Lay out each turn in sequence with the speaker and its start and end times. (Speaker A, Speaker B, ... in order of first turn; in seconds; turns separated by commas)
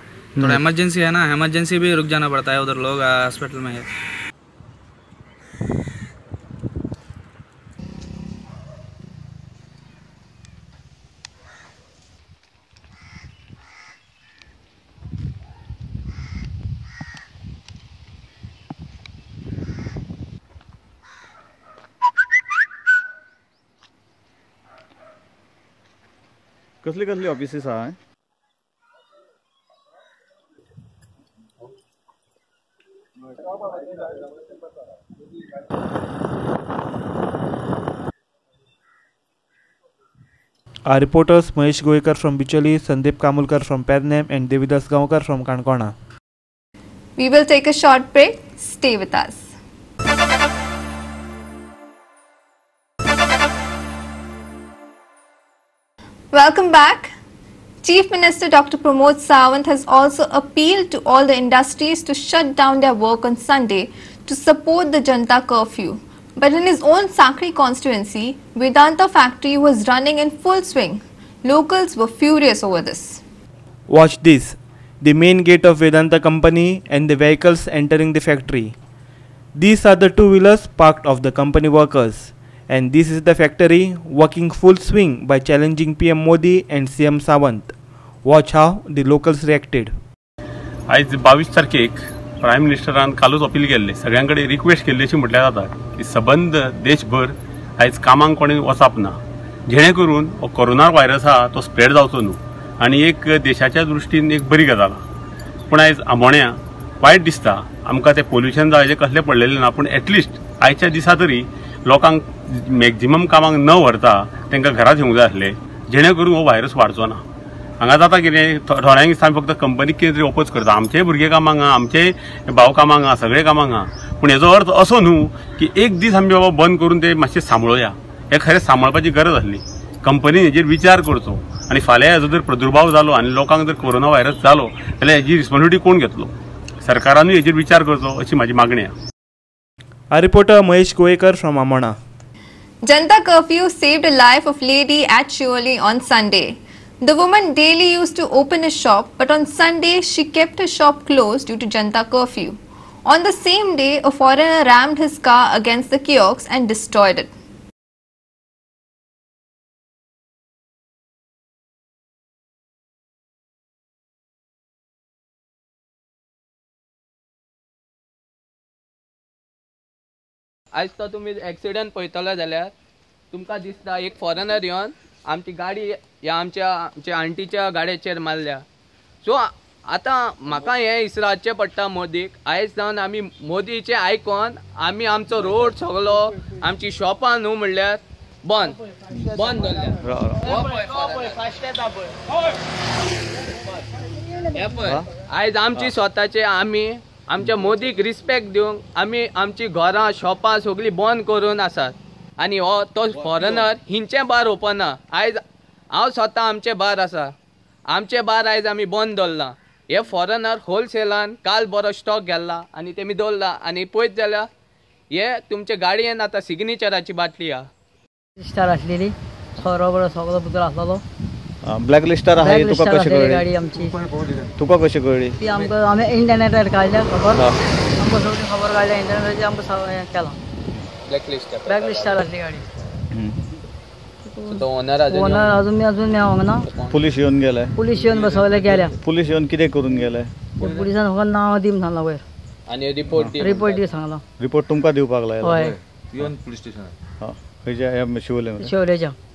Speaker A: 0.4-3.9, Speaker B: 26.8-28.0, Speaker C: 40.9-45.9, Speaker D: 47.2-49.5, Speaker D: 56.3-57.1, Speaker D: 57.8-73.2, Speaker C: 73.9-78.8, Speaker C: 79.5-87.7, Speaker C: 88.2-89.9, Speaker E: 90.9-105.0, Speaker E: 105.7-117.2, Speaker E: 117.8-136.3, Speaker E: 136.8-138.9, Speaker C: 140.1-141.9, Speaker D: 142.8-157.3, Speaker F: 170.8-172.7, Speaker F: 173.3-178.6, Speaker F: 179.2-191.4, Speaker B: 190.0-190.4, Speaker F: 194.5-205.4, Speaker G: 203.2-203.7, Speaker F: 205.9-207.3, Speaker F: 207.9-214.5, Speaker F: 215.1-217.6, Speaker H: 218.4-221.0, Speaker B: 221.6-223.5, Speaker H: 222.4-223.9, Speaker G: 223.6-224.6, Speaker B: 224.6-225.4, Speaker H: 225.4-230.4, Speaker F: 231.0-232.3, Speaker H: 231.7-232.6, Speaker B: 233.1-233.4, Speaker H: 234.3-236.6, Speaker F: 234.4-235.5, Speaker F: 236.6-237.0, Speaker B: 236.9-237.7, Speaker H: 237.8-238.9, Speaker G: 238.1-238.9, Speaker B: 239.0-240.3, Speaker H: 240.6-242.2, Speaker F: 242.7-243.9, Speaker H: 243.4-244.2, Speaker B: 244.4-245.6, Speaker H: 245.4-245.7, Speaker G: 245.5-246.9, Speaker B: 247.2-248.7, Speaker H: 248.6-249.2